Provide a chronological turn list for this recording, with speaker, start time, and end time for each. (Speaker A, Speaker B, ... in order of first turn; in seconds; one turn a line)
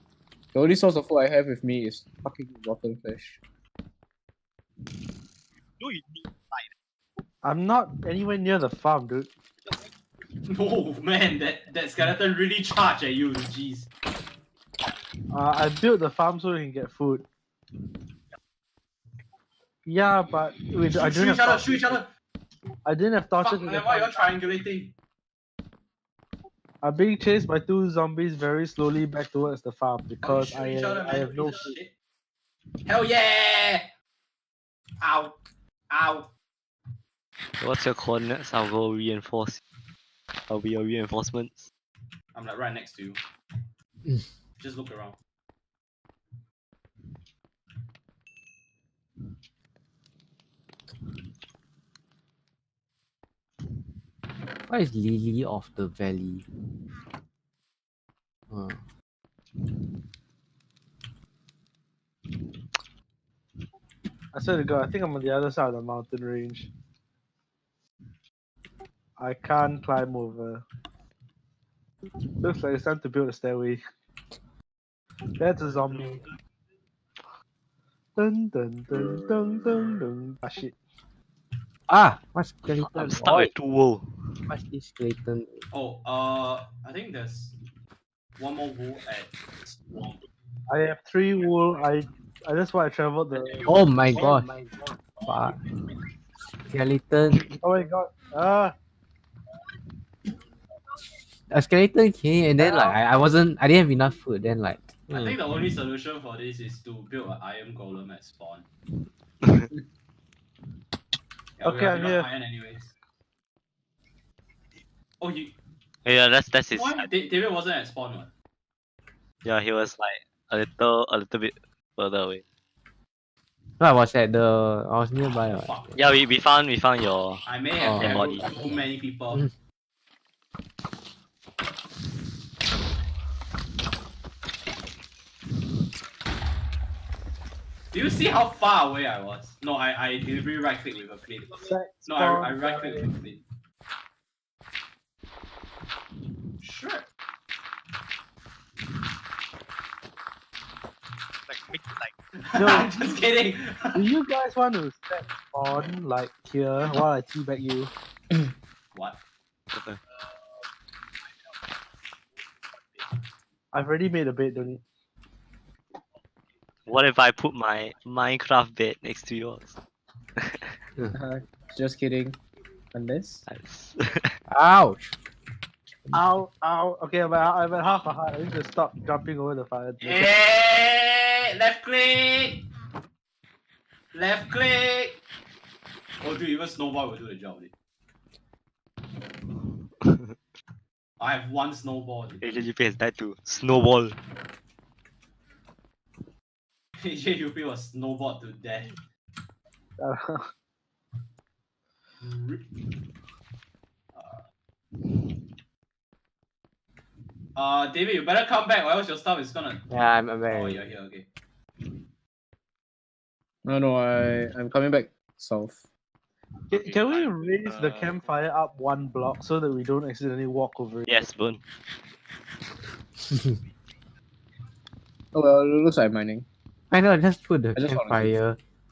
Speaker A: 0.5-3.4
Speaker B: 5.8-6.7
Speaker C: 7.4-9.3
Speaker D: 10.5-13.9
Speaker C: 15.3-17.2
Speaker C: 19.9-22.0
Speaker D: 20.9-22.1
Speaker C: 22.9-24.4
Speaker D: 23.4-24.9
Speaker C: 26.8-31.8
Speaker D: 30.2-31.9
Speaker D: 32.9-33.9
Speaker D: 35.0-35.4
Speaker D: 35.9-36.3
Speaker E: 37.6-39.6
Speaker E: 40.5-41.7
Speaker D: 42.3-43.2
Speaker D: 44.6-45.2
Speaker F: 54.7-56.5
Speaker F: 58.5-58.8
Speaker C: 64.3-66.7
Speaker C: 69.2-70.6
Speaker C: 72.4-73.8
Speaker C: 75.3-76.2
Speaker C: 78.2-80.8
Speaker F: 81.9-83.5
Speaker E: 82.8-84.1
Speaker F: 84.5-85.6
Speaker D: 85.7-87.6
Speaker D: 88.4-90.2
Speaker C: 90.7-93.7
Speaker B: 93.4-95.2
Speaker F: 93.7-94.5
Speaker F: 95.2-95.6
Speaker F: 96.7-97.5
Speaker C: 97.6-98.8
Speaker F: 101.5-105.3
Speaker D: 105.1-108.7
Speaker E: 109.4-109.7
Speaker D: 111.6-112.9
Speaker C: 111.6-112.3
Speaker D: 115.2-115.5
Speaker E: 116.0-117.1
Speaker D: 116.7-118.3
Speaker E: 119.4-122.4
Speaker F: 123.8-125.8
Speaker D: 125.5-126.0
Speaker E: 126.0-128.5
Speaker D: 127.5-129.5
Speaker F: 127.9-128.2
Speaker D: 137.9-143.4
Speaker C: 141.7-143.1
Speaker D: 146.6-147.1
Speaker B: 151.5-152.1
Speaker D: 152.4-154.0
Speaker C: 152.6-153.0
Speaker C: 153.9-157.9
Speaker E: 159.7-160.0
Speaker C: 163.7-164.8
Speaker E: 166.9-169.8
Speaker E: 170.4-170.7
Speaker A: 171.1-172.4
Speaker A: 172.9-173.4
Speaker E: 173.5-174.4
Speaker F: 174.5-175.1
Speaker C: 176.1-180.3
Speaker D: 180.0-182.7
Speaker D: 184.1-185.2
Speaker D: 186.2-187.7
Speaker D: 191.2-192.6
Speaker E: 192.4-194.2
Speaker D: 197.0-199.0
Speaker C: 200.0-200.5
Speaker D: 202.2-202.7
Speaker D: 204.2-204.4
Speaker D: 207.6-209.9
Speaker F: 209.9-210.9
Speaker D: 210.5-211.3
Speaker A: 213.6-215.8
Speaker C: 216.7-221.3
Speaker B: 216.7-218.2
Speaker E: 221.1-221.6
Speaker A: 225.3-226.5
Speaker F: 226.9-228.6
Speaker A: 227.8-228.3